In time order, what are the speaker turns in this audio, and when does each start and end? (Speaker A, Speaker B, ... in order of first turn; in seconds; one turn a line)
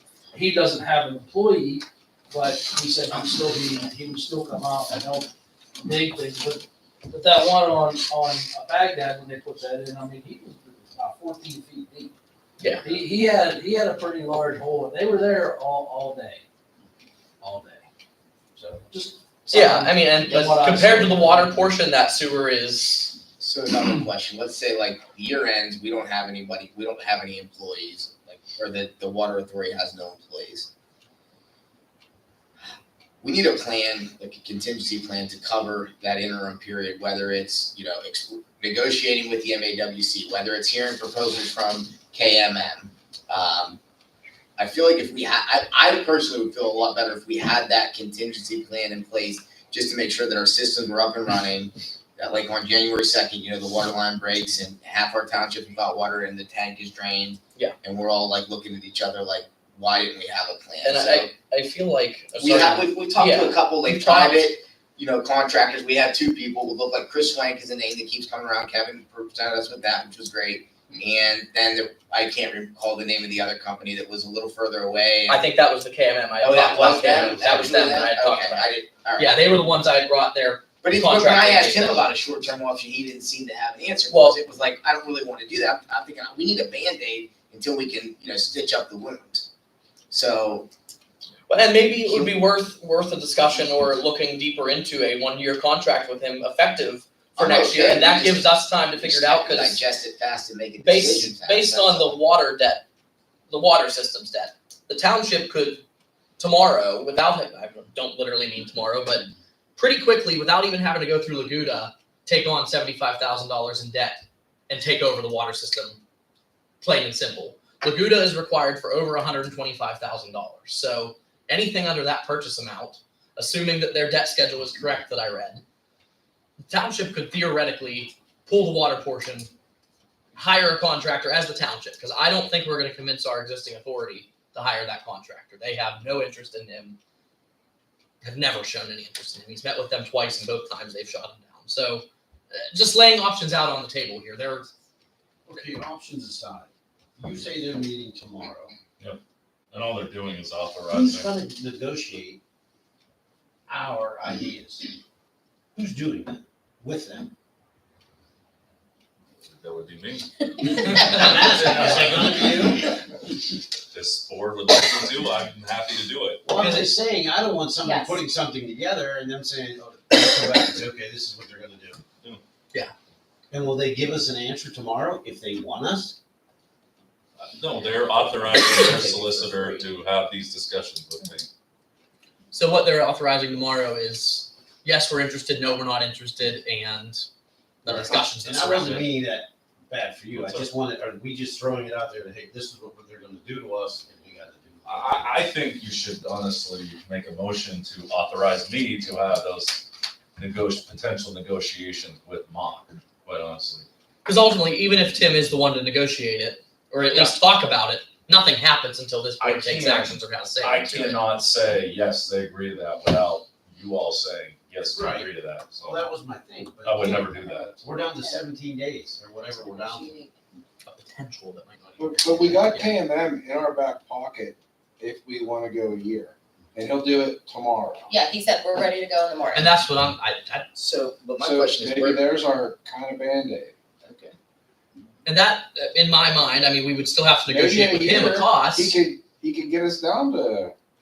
Speaker A: 0.3-5.3
Speaker A: 5.8-12.1
Speaker B: 12.6-13.0
Speaker A: 12.7-16.4
Speaker A: 17.4-17.9
Speaker A: 18.6-21.7
Speaker B: 19.5-23.2
Speaker C: 23.4-30.7
Speaker C: 33.2-43.8
Speaker C: 44.6-61.3
Speaker B: 60.8-64.5
Speaker C: 62.4-75.4
Speaker B: 75.3-82.1
Speaker C: 76.4-79.3
Speaker C: 80.8-89.5
Speaker B: 84.1-84.4
Speaker C: 90.1-90.7
Speaker B: 91.5-99.8
Speaker C: 97.4-102.2
Speaker B: 100.8-102.8
Speaker B: 103.5-105.8
Speaker B: 106.4-116.0
Speaker B: 116.8-125.6
Speaker B: 126.7-129.5
Speaker B: 130.3-137.0
Speaker B: 138.2-144.7
Speaker D: 145.5-148.7
Speaker E: 149.7-151.3
Speaker D: 150.9-152.4
Speaker D: 153.7-154.9
Speaker D: 155.8-157.3
Speaker E: 159.4-162.7
Speaker D: 161.1-163.0
Speaker E: 163.9-166.4
Speaker D: 166.4-172.0
Speaker B: 166.6-166.9
Speaker F: 167.8-168.2
Speaker D: 173.5-176.2
Speaker E: 177.4-181.5
Speaker C: 177.8-179.9
Speaker B: 182.5-187.3
Speaker B: 187.8-189.1
Speaker D: 187.9-195.3
Speaker E: 190.3-190.7
Speaker E: 194.8-203.9
Speaker B: 204.2-211.2
Speaker E: 207.1-207.4
Speaker E: 209.4-216.1
Speaker D: 214.9-215.3
Speaker D: 215.8-220.2
Speaker E: 216.8-217.8
Speaker F: 219.5-220.3
Speaker B: 220.9-222.9
Speaker G: 222.0-228.1
Speaker F: 228.1-229.7
Speaker B: 229.5-230.7
Speaker C: 230.8-232.2
Speaker G: 231.4-233.8
Speaker C: 234.0-234.3
Speaker B: 235.2-238.9
Speaker G: 237.5-240.7